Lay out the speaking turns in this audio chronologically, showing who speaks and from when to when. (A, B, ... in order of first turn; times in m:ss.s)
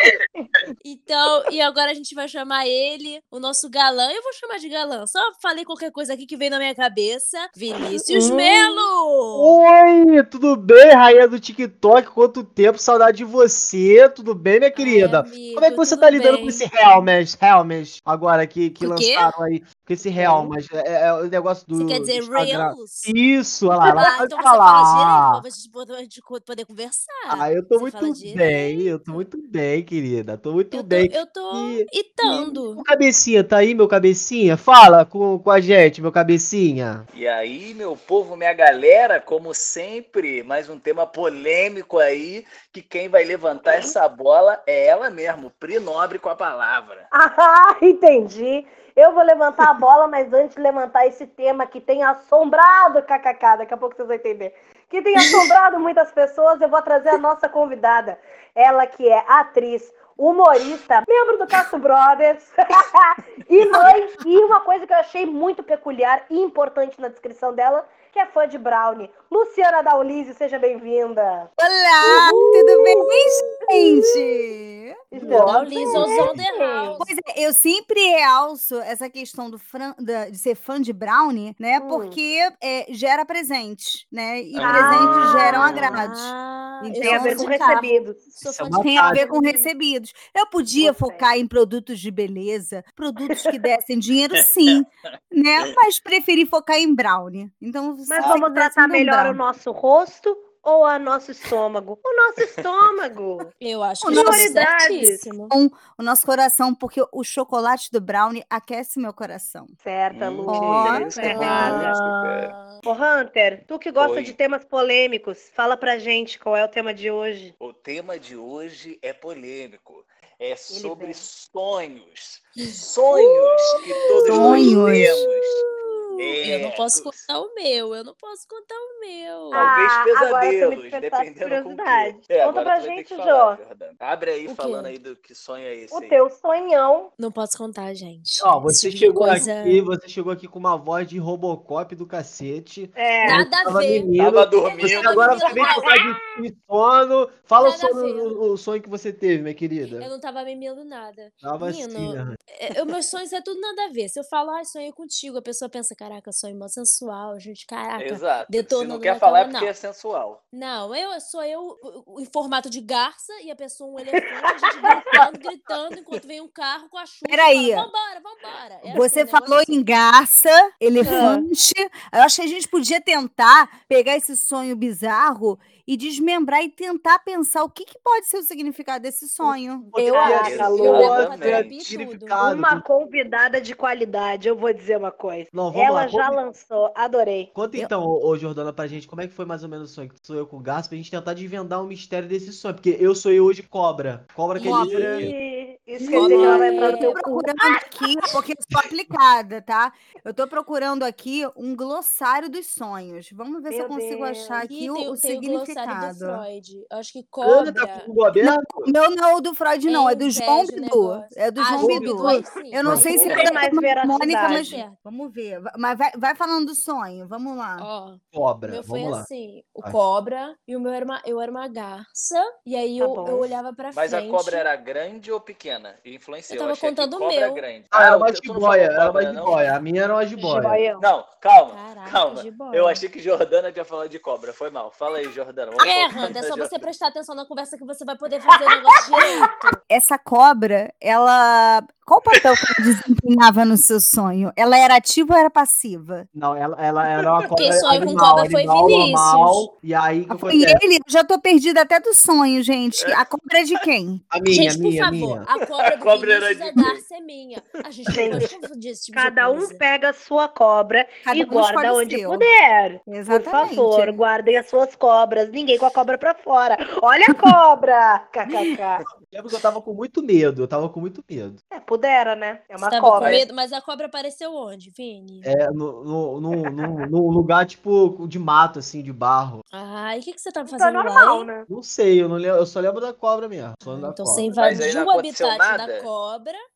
0:00.8-0:09.6 A
0:08.0-0:08.9 B
0:09.3-0:25.4 C
0:14.7-0:16.6 A
0:18.8-0:19.3 A
0:20.2-0:20.5 B
0:21.7-0:23.1 A
0:23.8-0:24.1 B
0:23.8-0:29.2 A
0:27.3-0:37.0 C
0:30.7-0:32.8 A
0:37.1-0:47.1 D
0:47.1-1:11.5 B
1:11.6-1:15.0 E
1:12.0-1:14.0 B
1:12.1-1:13.2 A
1:15.1-1:17.0 B
1:15.1-1:16.5 C
1:15.2-1:17.1 A
1:16.0-1:16.2 E
1:17.0-1:27.9 E
1:21.8-1:22.2 B
1:24.5-1:26.0 D
1:24.6-1:25.9 B
1:24.7-1:25.2 C
1:25.1-1:29.7 A
1:27.0-1:28.2 B
1:28.4-1:29.2 C
1:28.8-1:39.4 E
1:30.8-1:31.2 B
1:34.4-1:34.8 D
1:38.1-1:43.5 B
1:43.6-1:45.5 A
1:44.0-1:44.6 E
1:44.1-1:45.2 B
1:45.5-1:49.7 E
1:49.8-1:52.2 B
1:50.1-1:52.5 D
1:50.5-1:51.7 E
1:51.2-1:52.8 A
1:51.4-1:51.8 C
1:52.8-1:57.5 B
1:54.0-1:54.4 D
1:57.6-2:05.6 D
2:00.7-2:01.2 B
2:02.6-2:09.7 A
2:04.2-2:04.8 B
2:04.2-2:05.2 E
2:06.1-2:07.2 D
2:09.5-2:13.6 B
2:09.5-2:16.2 D
2:14.5-2:14.9 A
2:15.9-2:17.1 B
2:17.2-2:19.8 A
2:18.4-2:30.1 C
2:23.0-2:23.5 B
2:23.2-2:24.1 A
2:24.2-2:25.6 D
2:24.6-2:26.0 A
2:25.6-2:26.3 B
2:27.6-2:28.4 A
2:30.0-2:39.7 A
2:31.4-2:32.4 C
2:38.0-2:40.4 D
2:40.5-2:49.8 A
2:47.2-2:47.9 E
2:48.9-2:59.9 E
2:51.0-2:51.4 B
2:51.0-2:51.3 A
2:59.9-3:02.8 C
3:00.0-3:02.4 A
3:00.0-3:01.2 B
3:00.4-3:01.7 D
3:02.4-3:07.5 B
3:05.5-3:06.4 C
3:07.5-3:15.3 C
3:14.6-3:15.3 E
3:14.6-3:17.8 B
3:14.6-3:15.0 A
3:16.0-3:26.4 E
3:16.1-3:17.2 A
3:16.2-3:16.5 C
3:23.7-3:24.6 B
3:24.6-3:28.1 A
3:27.4-3:28.9 C
3:28.4-3:37.9 E
3:29.9-3:35.0 A
3:31.8-3:33.2 C
3:33.1-3:34.8 B
3:33.2-3:33.5 D
3:37.8-3:44.6 A
3:38.3-3:39.3 C
3:43.0-3:43.4 B
3:43.9-3:49.7 D
3:46.5-3:47.6 A
3:47.9-3:50.8 C
3:50.4-3:51.0 B
3:50.9-3:56.9 D
3:51.7-3:53.0 A
3:55.8-3:59.8 A
3:59.9-4:06.3 E
4:02.4-4:02.9 D
4:06.3-4:10.8 C
4:07.1-4:07.5 D
4:07.5-4:09.7 A
4:10.3-4:14.2 E
4:14.3-4:15.4 C
4:14.5-4:19.8 A
4:15.5-4:17.0 D
4:18.1-4:18.5 B
4:19.1-4:29.0 B
4:21.2-4:22.5 E
4:23.1-4:24.2 E
4:29.0-4:31.6 C
4:31.7-4:33.4 B
4:32.8-4:35.5 A
4:35.4-4:39.6 C
4:39.7-4:41.5 A
4:40.6-4:41.7 B
4:41.7-4:44.5 C
4:43.9-4:46.6 A
4:44.6-4:46.1 D